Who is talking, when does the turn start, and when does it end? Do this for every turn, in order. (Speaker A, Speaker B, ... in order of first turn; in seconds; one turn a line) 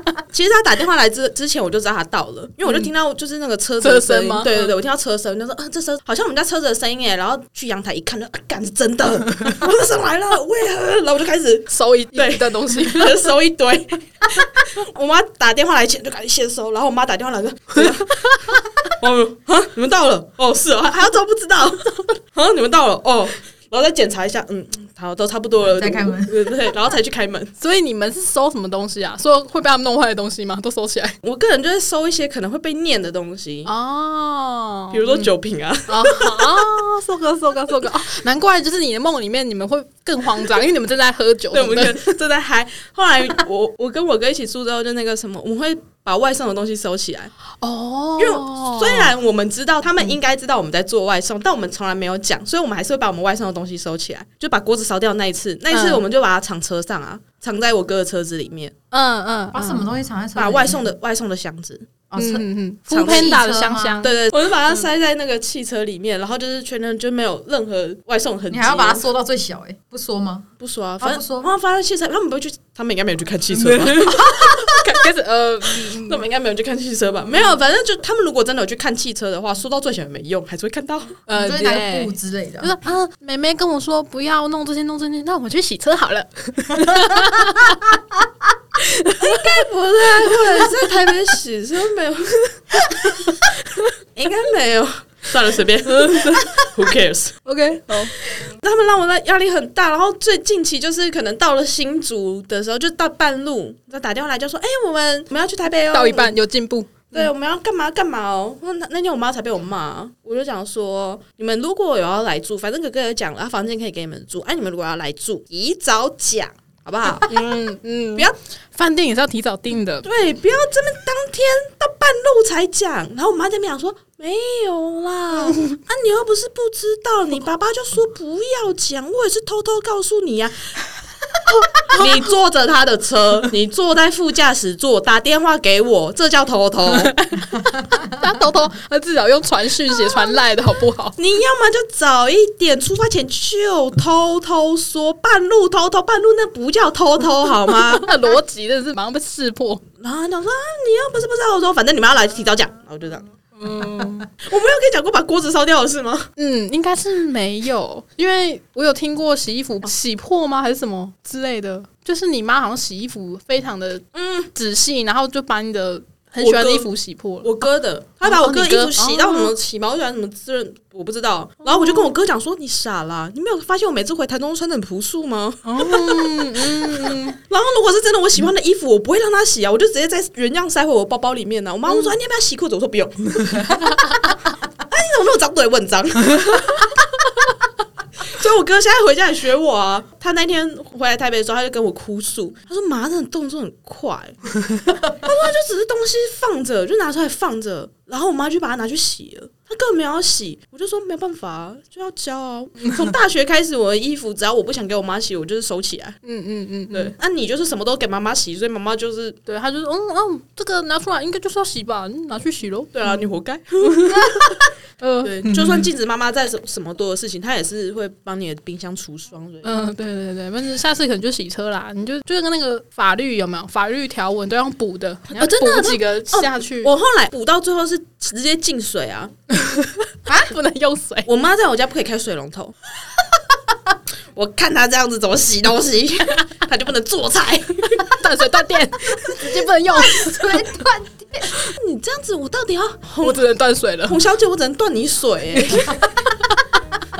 Speaker A: 0.3-27.5
Speaker B: 3.8-4.7
Speaker B: 11.7-13.3
Speaker C: 25.7-26.4
Speaker B: 27.6-31.1
Speaker A: 31.2-33.7
Speaker B: 33.6-35.3
Speaker A: 34.9-36.6
Speaker B: 35.9-42.1
Speaker A: 41.5-47.3
Speaker B: 47.6-49.1
Speaker A: 48.2-58.7
Speaker B: 55.7-56.0
Speaker B: 58.9-59.9
Speaker C: 59.5-60.9
Speaker A: 60.4-61.9
Speaker C: 62.1-62.5
Speaker B: 62.2-64.1
Speaker A: 62.9-63.4
Speaker C: 63.0-64.0
Speaker A: 64.0-69.1
Speaker C: 68.5-70.5
Speaker A: 70.6-74.5
Speaker C: 71.0-71.5
Speaker B: 73.5-76.2
Speaker A: 75.8-81.2
Speaker B: 81.3-88.0
Speaker C: 81.3-82.8
Speaker B: 88.8-89.6
Speaker A: 89.2-93.2
Speaker B: 90.3-90.7
Speaker B: 93.0-93.9
Speaker A: 94.1-97.4
Speaker B: 95.9-96.7
Speaker B: 97.4-98.3
Speaker A: 98.3-106.3
Speaker B: 105.9-107.3
Speaker A: 107.1-117.6
Speaker B: 117.2-120.1
Speaker A: 120.0-130.7
Speaker A: 131.9-137.1
Speaker B: 136.9-141.2
Speaker A: 141.2-148.1
Speaker B: 147.7-149.8
Speaker A: 150.0-153.3
Speaker B: 153.6-154.3
Speaker A: 154.4-156.3
Speaker B: 156.4-167.6
Speaker A: 164.1-164.5
Speaker A: 166.4-184.0
Speaker B: 168.2-169.5
Speaker B: 171.6-172.1
Speaker B: 175.6-177.4
Speaker A: 184.7-186.9
Speaker A: 188.3-206.2
Speaker B: 206.2-207.1
Speaker A: 206.9-209.4
Speaker B: 209.4-213.2
Speaker A: 212.9-214.7
Speaker B: 213.8-215.8
Speaker A: 215.2-219.8
Speaker B: 219.6-226.9
Speaker A: 225.3-229.3
Speaker B: 229.6-231.3
Speaker A: 231.2-232.7
Speaker A: 234.3-238.2
Speaker B: 238.1-240.7
Speaker C: 240.2-241.5
Speaker A: 241.6-243.4
Speaker B: 243.2-244.2
Speaker A: 244.1-246.0
Speaker B: 245.6-246.6